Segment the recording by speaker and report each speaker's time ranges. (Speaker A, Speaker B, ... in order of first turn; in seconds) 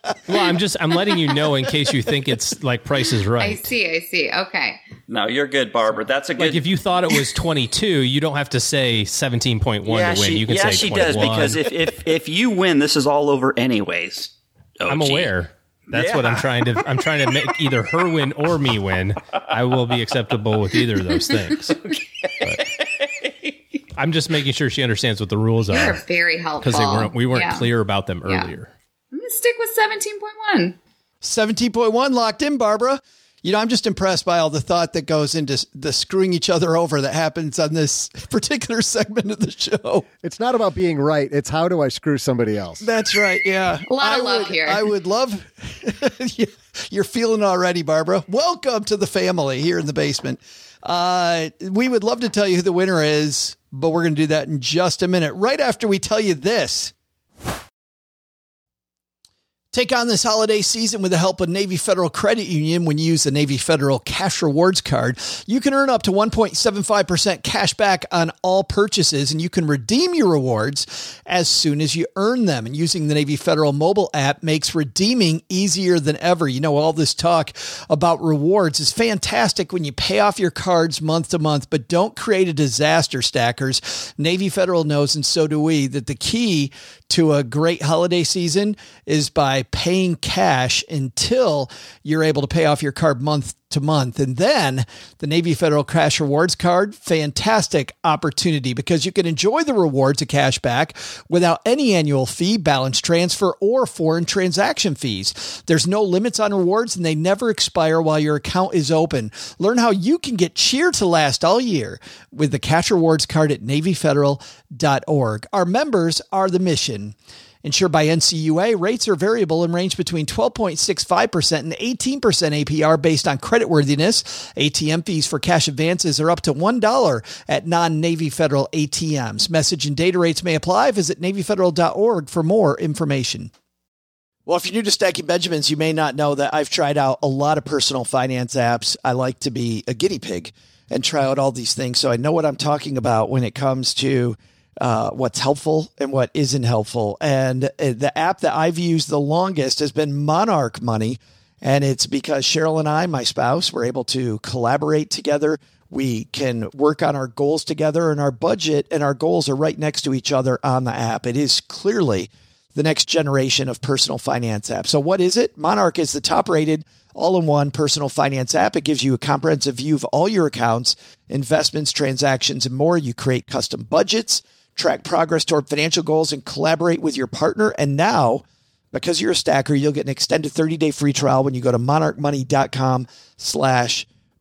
Speaker A: 0.3-3.7, 6.4-11.6, 14.9-22.7, 24.0-26.0, 26.6-28.7
Speaker B: 3.4-4.8, 25.7-27.7, 29.1-30.8, 43.9-44.9
Speaker C: 5.1-6.6, 9.9-15.3, 15.9-16.7, 22.6-22.8
Speaker D: 31.2-40.0, 42.8-56.9, 59.7-133.5, 134.5-178.4, 178.9-184.1
Speaker E: 40.2-42.8